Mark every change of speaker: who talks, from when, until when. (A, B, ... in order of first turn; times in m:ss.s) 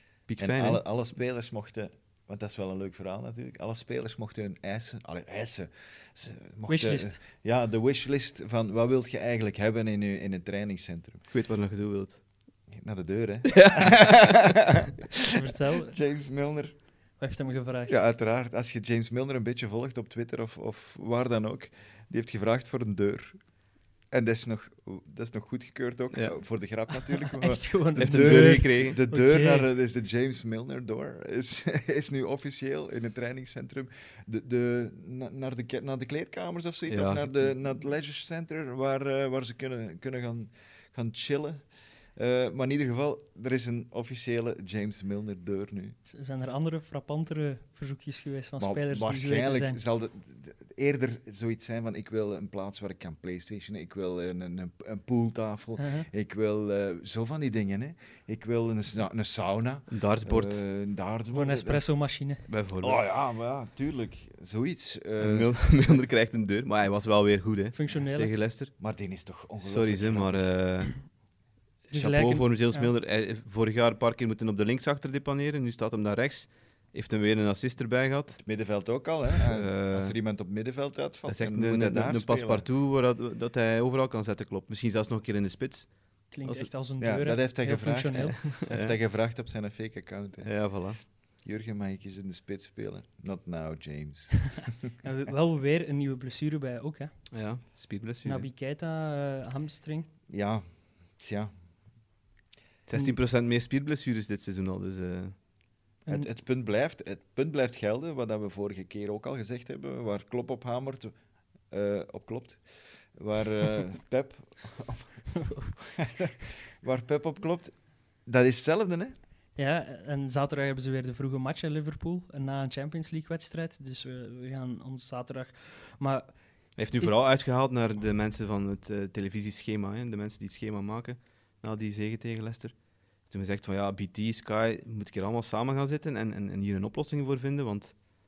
0:00.3-0:00.8 A
0:00.4-0:11.2 B
0:06.7-0:07.2 C
0:11.3-0:12.2 A
0:12.7-0:15.3 B
0:13.5-0:14.5 A
0:15.3-0:15.9 C
0:15.8-0:16.7 B
0:17.2-0:18.0 C
0:17.9-0:23.4 B
0:24.1-0:46.0 B
0:27.1-0:29.7 C
0:28.0-0:29.0 A
0:36.9-0:37.3 A
0:46.1-0:49.8 C
0:48.6-1:01.8 B
0:55.8-0:56.1 C
0:59.9-1:00.6 A
1:01.3-1:02.4 C
1:02.5-1:03.0 A
1:02.8-1:05.5 B
1:05.2-1:08.7 A
1:07.7-1:08.3 C
1:08.8-1:10.5 B
1:09.6-1:10.9 A
1:11.9-1:18.4 A
1:11.9-1:12.9 C
1:18.4-1:22.7 B
1:19.5-1:20.1 A
1:21.3-1:26.7 A
1:26.3-1:28.4 C
1:27.0-1:30.5 B
1:28.3-1:28.9 A
1:30.4-1:31.0 A
1:31.4-1:34.9 B
1:35.0-1:37.1 C
1:37.3-1:38.5 A
1:38.2-1:40.1 C
1:40.3-1:40.6 B
1:41.2-1:41.5 B
1:42.9-1:45.3 A
1:46.1-1:51.1 B
1:51.7-1:52.6 B
1:53.1-1:55.1 B
1:55.8-1:57.7 B
1:58.2-1:59.1 B
1:59.6-2:06.3 C
2:06.8-2:18.1 A